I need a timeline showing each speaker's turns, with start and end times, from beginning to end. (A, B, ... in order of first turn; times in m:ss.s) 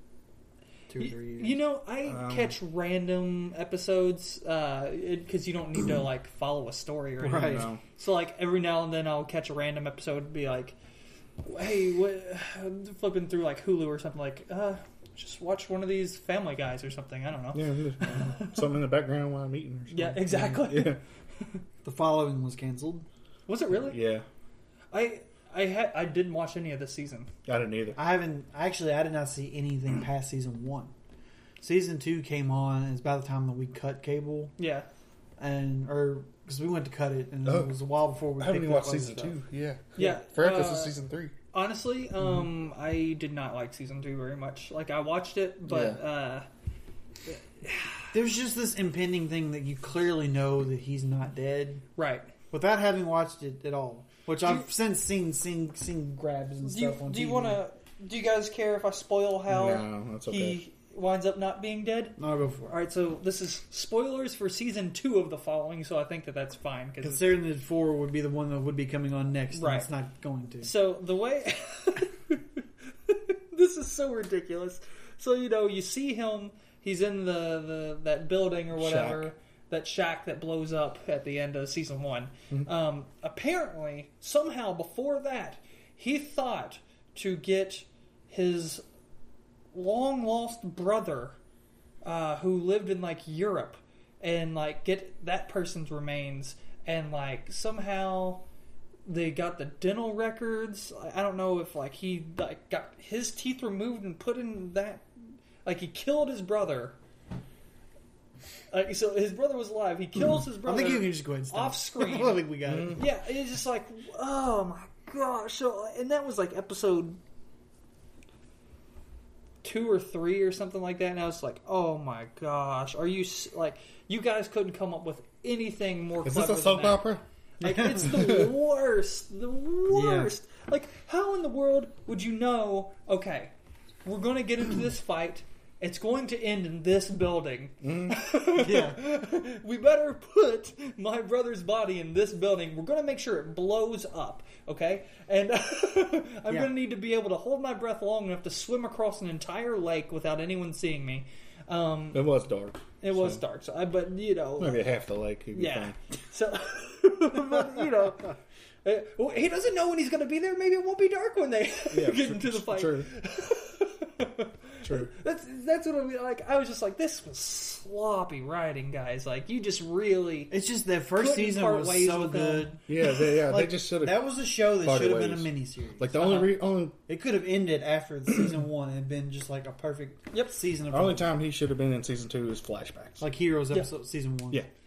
0:00.9-0:01.6 A
0:01.0-0:10.8 B
0:02.0-0:02.6 C
0:07.2-0:07.7 A
0:07.3-0:07.8 C
0:11.4-0:18.6 B
0:17.5-0:21.0 C
0:19.9-0:21.0 B
0:21.8-0:23.1 A
0:23.5-0:24.0 B
0:23.7-0:24.3 C
0:24.9-0:27.3 B
0:27.5-0:28.0 C
0:28.0-0:30.9 A
0:31.6-0:34.6 A
0:34.6-0:34.9 B
0:35.4-0:39.4 A
0:37.4-0:37.7 C
0:38.4-0:41.4 C
0:40.0-0:41.0 B
0:41.5-0:46.5 B
0:45.7-0:46.0 C
0:47.3-0:48.1 B
0:48.1-0:51.8 A
0:52.0-0:52.3 B
0:52.5-0:57.6 A
0:56.6-1:07.4 B
0:59.5-1:00.6 C
1:02.2-1:02.7 A
1:07.0-1:10.7 A
1:09.5-1:09.9 B
1:10.6-1:28.8 B
1:18.7-1:19.3 C
1:29.7-1:31.4 B
1:32.0-1:38.4 B
1:39.1-1:45.1 B
1:45.6-1:47.0 B
1:48.7-1:57.2 B
1:50.5-1:53.0 A
1:52.7-1:53.0 C
1:59.6-2:13.5 B
2:06.2-2:07.2 C
2:07.6-2:08.1 A
2:08.1-2:08.5 C
2:09.9-2:10.3 A
2:14.0-2:32.3 B
2:17.8-2:18.2 C
2:18.6-2:19.0 A
2:32.1-2:33.4 C
2:33.0-2:34.9 B
2:34.6-2:36.0 C
2:35.5-2:50.5 B
2:41.9-2:43.1 C
2:44.8-2:45.1 C
2:50.5-3:01.3 A
2:51.2-2:52.8 B
2:52.9-2:57.0 C
3:00.9-3:03.2 C
3:03.2-3:04.6 A